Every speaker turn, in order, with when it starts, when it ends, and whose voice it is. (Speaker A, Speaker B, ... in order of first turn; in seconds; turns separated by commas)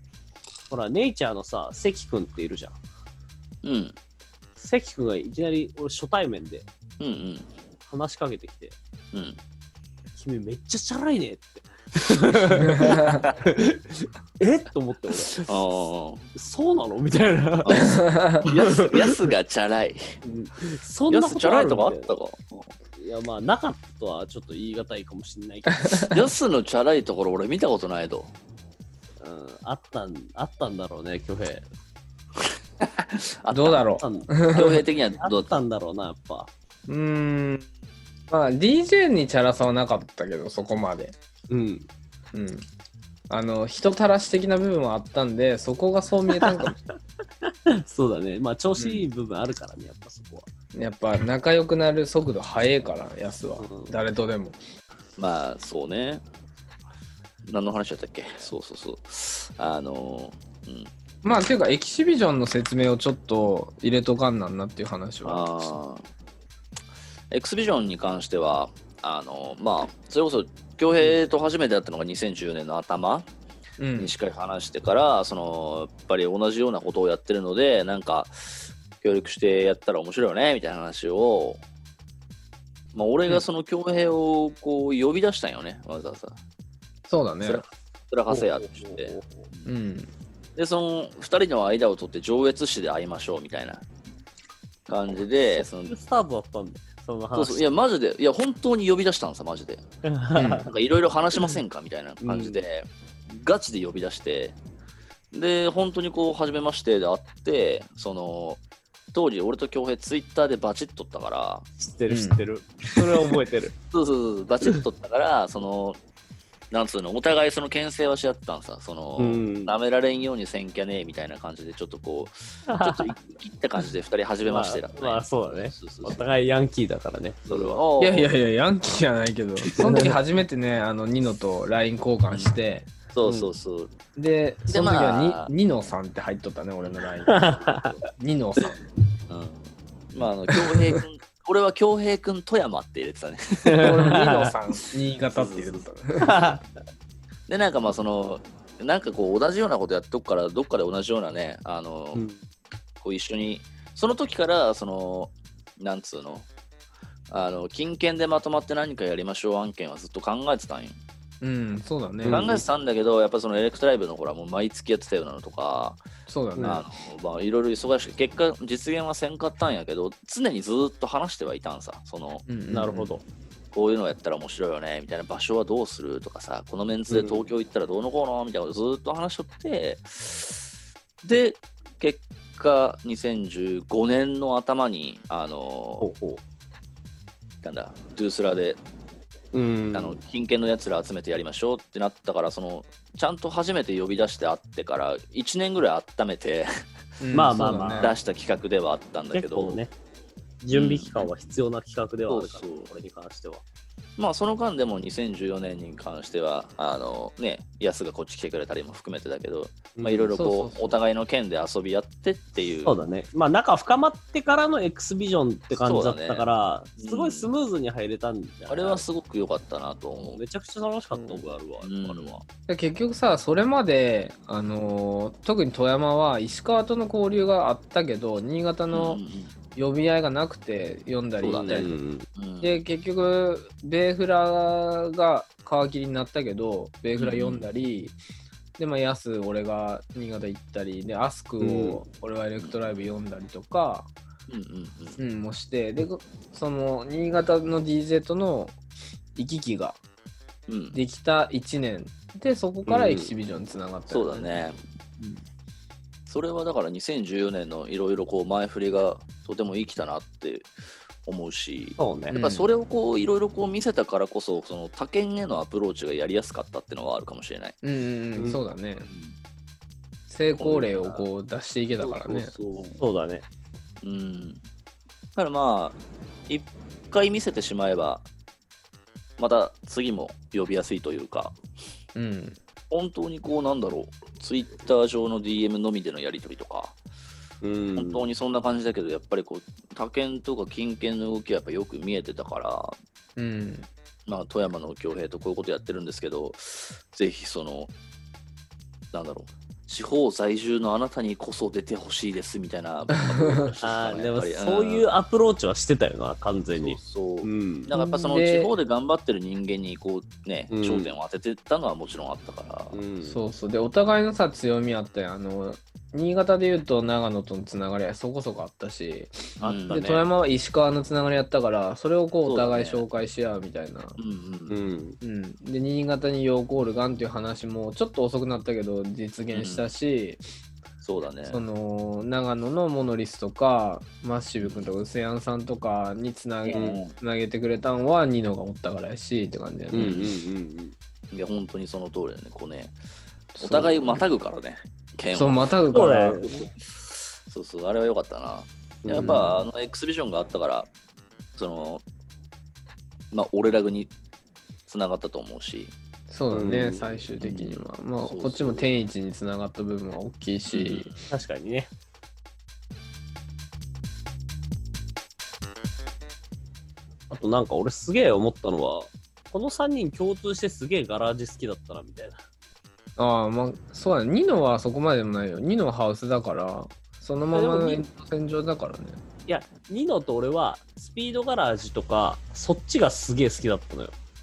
Speaker A: 0.7-2.8, Speaker B: 3.6-4.0, Speaker A: 4.6-6.7, Speaker B: 7.0-7.5, Speaker A: 7.9-8.8, Speaker B: 9.1-9.4, Speaker A: 10.2-19.3, Speaker C: 12.7-13.2, Speaker B: 15.4-16.3, Speaker B: 17.6-20.2, Speaker C: 17.8-18.5, Speaker A: 20.2-22.2, Speaker B: 21.1-22.7, Speaker A: 23.0-26.2, Speaker C: 25.8-26.1, Speaker B: 26.0-28.3, Speaker A: 29.2-31.7, Speaker B: 32.8-33.8, Speaker C: 33.5-34.8, Speaker A: 34.0-36.5, Speaker B: 34.5-35.6, Speaker C: 36.9-37.7, Speaker C: 38.3-41.1, Speaker A: 41.5-41.9, Speaker C: 42.3-42.6, Speaker C: 43.3-46.8, Speaker A: 46.4-46.7, Speaker A: 47.7-50.5, Speaker C: 48.8-49.0, Speaker C: 50.7-54.6, Speaker A: 53.6-54.0, Speaker B: 55.2-56.2, Speaker B: 57.5-60.9, Speaker C: 61.2-65.8, Speaker B: 65.2-66.0, Speaker B: 67.3-73.3, Speaker C: 73.8-74.1, Speaker B: 74.0-81.6, Speaker B: 82.9-86.4, Speaker C: 87.1-87.6, Speaker B: 87.4-89.7, Speaker A: 88.3-89.3, Speaker C: 89.7-90.1, Speaker B: 90.6-93.8, Speaker B: 94.9-96.0, Speaker A: 95.5-97.7, Speaker B: 97.3-99.8, Speaker A: 100.0-100.7, Speaker C: 100.4-100.7, Speaker B: 100.7-104.6, Speaker A: 102.2-102.6, Speaker B: 105.3-108.6, Speaker B: 109.1-111.7, Speaker A: 111.8-113.8, Speaker C: 112.1-112.4, Speaker B: 113.9-116.0, Speaker B: 116.7-126.2, Speaker A: 119.2-119.8, Speaker A: 122.7-123.1, Speaker A: 124.4-127.8, Speaker B: 127.5-128.3, Speaker C: 128.0-132.9, Speaker A: 129.7-130.2, Speaker B: 133.1-133.9, Speaker A: 133.2-133.5, Speaker C: 134.2-137.6, Speaker B: 134.7-135.5, Speaker B: 136.8-138.1, Speaker A: 137.3-137.9, Speaker C: 138.1-138.8, Speaker B: 139.3-144.2, Speaker A: 143.7-144.5, Speaker C: 143.8-146.5, Speaker B: 145.3-145.8, Speaker A: 146.2-146.6, Speaker B: 147.5-152.3, Speaker A: 152.1-152.4, Speaker B: 153.0-156.5, Speaker B: 157.3-161.0, Speaker C: 161.4-162.5, Speaker A: 162.2-162.6, Speaker B: 162.3-166.0, Speaker C: 166.3-166.8, Speaker A: 166.6-166.8, Speaker B: 166.6-172.5, Speaker C: 172.5-173.2, Speaker A: 172.7-173.2, Speaker B: 173.7-180.7, Speaker A: 177.1-177.5, Speaker B: 181.2-186.1, Speaker A: 186.0-186.4, Speaker B: 187.6-188.8, Speaker A: 189.5-190.2, Speaker B: 189.9-196.7, Speaker C: 197.2-198.1, Speaker A: 197.3-198.1, Speaker B: 198.0-199.8, Speaker A: 199.3-199.9, Speaker A: 200.6-203.6, Speaker B: 200.7-201.3, Speaker B: 202.3-202.9, Speaker B: 204.2-213.0, Speaker A: 210.0-210.3, Speaker C: 210.3-211.0, Speaker A: 212.8-219.1, Speaker B: 215.7-216.4, Speaker B: 217.0-217.5, Speaker B: 218.7-220.4, Speaker A: 220.3-222.4, Speaker B: 221.8-222.4, Speaker C: 222.7-229.2, Speaker B: 228.9-229.5, Speaker C: 229.8-231.9, Speaker B: 231.4-232.8, Speaker A: 231.5-232.3, Speaker C: 232.6-238.2, Speaker B: 237.2-237.7, Speaker C: 238.8-244.1, Speaker A: 241.6-242.0, Speaker B: 244.5-245.2, Speaker C: 245.2-248.8, Speaker C: 249.4-250.0, Speaker B: 250.7-251.0, Speaker C: 250.9-254.5, Speaker A: 252.9-253.3, Speaker B: 254.1-254.8, Speaker B: 256.3-260.7, Speaker B: 261.2-267.8, Speaker A: 262.0-262.4, Speaker C: 262.3-262.7, Speaker C: 267.8-269.1, Speaker A: 268.4-268.6, Speaker B: 269.0-269.4, Speaker C: 270.3-272.5, Speaker B: 270.5-271.3, Speaker B: 272.0-273.0, Speaker A: 273.0-273.4, Speaker B: 274.0-274.6, Speaker B: 275.4-278.3, Speaker B: 279.4-281.6, Speaker C: 282.1-282.6, Speaker B: 282.9-287.0, Speaker A: 287.6-288.3, Speaker B: 287.9-293.0, Speaker C: 293.4-293.9, Speaker B: 294.3-297.9, Speaker B: 299.1-305.1, Speaker C: 303.3-303.6, Speaker A: 303.8-307.9, Speaker B: 306.8-313.0, Speaker C: 307.9-308.7, Speaker A: 310.7-311.1, Speaker A: 312.9-313.4, Speaker C: 313.2-324.2, Speaker B: 319.6-320.1, Speaker A: 319.6-320.2, Speaker B: 322.4-323.1, Speaker B: 324.2-324.8, Speaker A: 324.7-325.2, Speaker C: 325.2-330.4, Speaker B: 329.5-329.9, Speaker B: 331.0-331.6, Speaker C: 331.5-340.2, Speaker B: 334.6-334.9, Speaker B: 336.7-337.1, Speaker A: 336.7-337.0, Speaker A: 339.9-340.9, Speaker B: 339.9-340.3, Speaker B: 341.3-342.9, Speaker C: 343.6-344.2, Speaker B: 343.6-346.1, Speaker C: 345.3-346.5, Speaker A: 345.9-346.7, Speaker B: 347.5-350.9, Speaker A: 349.0-349.5, Speaker C: 349.2-349.6, Speaker B: 351.6-352.0, Speaker B: 353.3-354.1, Speaker B: 354.9-355.9, Speaker C: 356.3-361.1, Speaker A: 356.5-357.1, Speaker B: 357.4-358.9, Speaker B: 360.7-361.3, Speaker A: 361.3-361.9, Speaker A: 367.3-372.4, Speaker C: 373.2-379.2, Speaker A: 377.5-378.0, Speaker A: 379.5-384.1